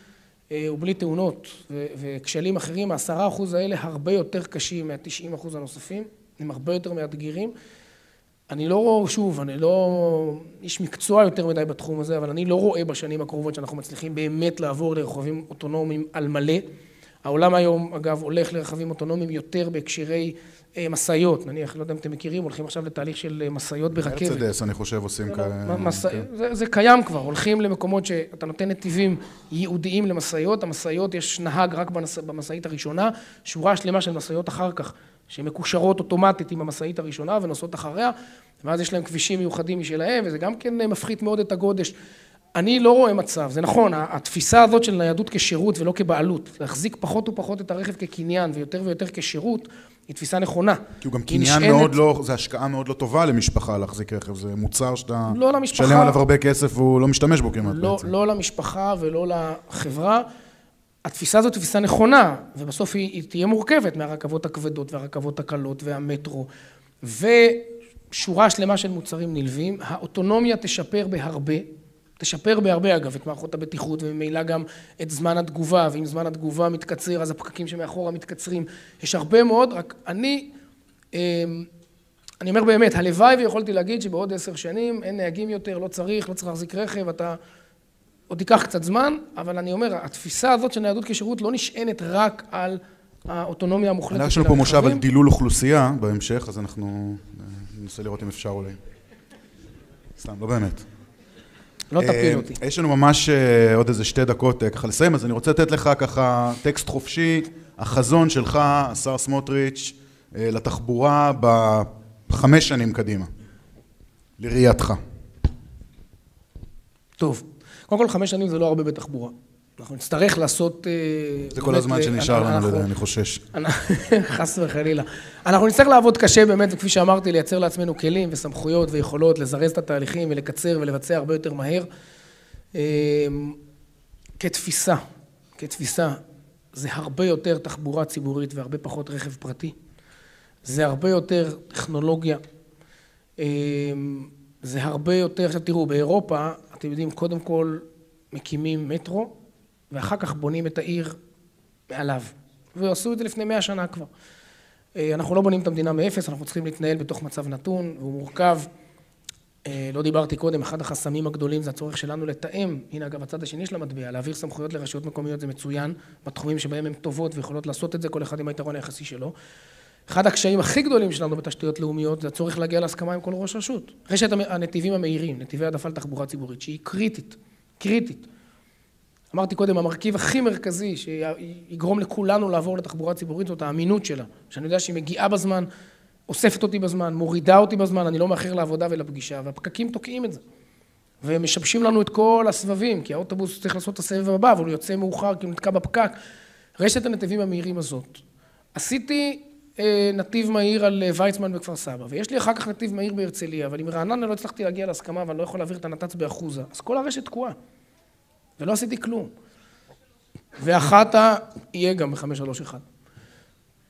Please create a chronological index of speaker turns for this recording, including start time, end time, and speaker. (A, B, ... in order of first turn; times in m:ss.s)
0:00.5-0:07.5 A
0:08.5-0:16.7 A
0:17.2-0:24.4 A
0:24.1-0:26.2 B
0:25.3-0:42.0 A
0:42.5-0:52.0 A
0:51.0-0:58.1 B
0:55.3-0:56.2 A
0:57.6-1:00.3 A
1:01.0-1:06.5 A
1:07.0-1:20.5 A
1:21.1-1:21.7 A
1:22.4-1:27.4 A
1:28.3-1:35.0 A
1:34.1-1:38.8 B
1:40.2-1:40.8 B
1:41.9-1:42.6 A
1:42.0-1:53.3 B
1:54.4-1:55.0 B
1:57.2-2:02.9 A
2:01.5-2:03.4 B
2:03.5-2:11.9 A
2:12.7-2:13.6 A
2:14.4-2:15.0 A
2:15.6-2:16.2 A
2:16.7-2:19.7 A
2:20.6-2:22.4 A
2:23.4-2:29.4 A
2:29.9-2:31.2 A
2:31.9-2:34.1 A
2:34.9-2:38.7 A
2:39.6-2:49.3 A
2:50.1-2:58.3 A
2:59.3-3:05.7 A
3:06.3-3:10.4 A
3:11.2-3:16.2 A
3:16.8-3:18.2 A
3:18.7-3:27.6 A
3:28.6-3:29.3 A
3:30.6-3:32.8 A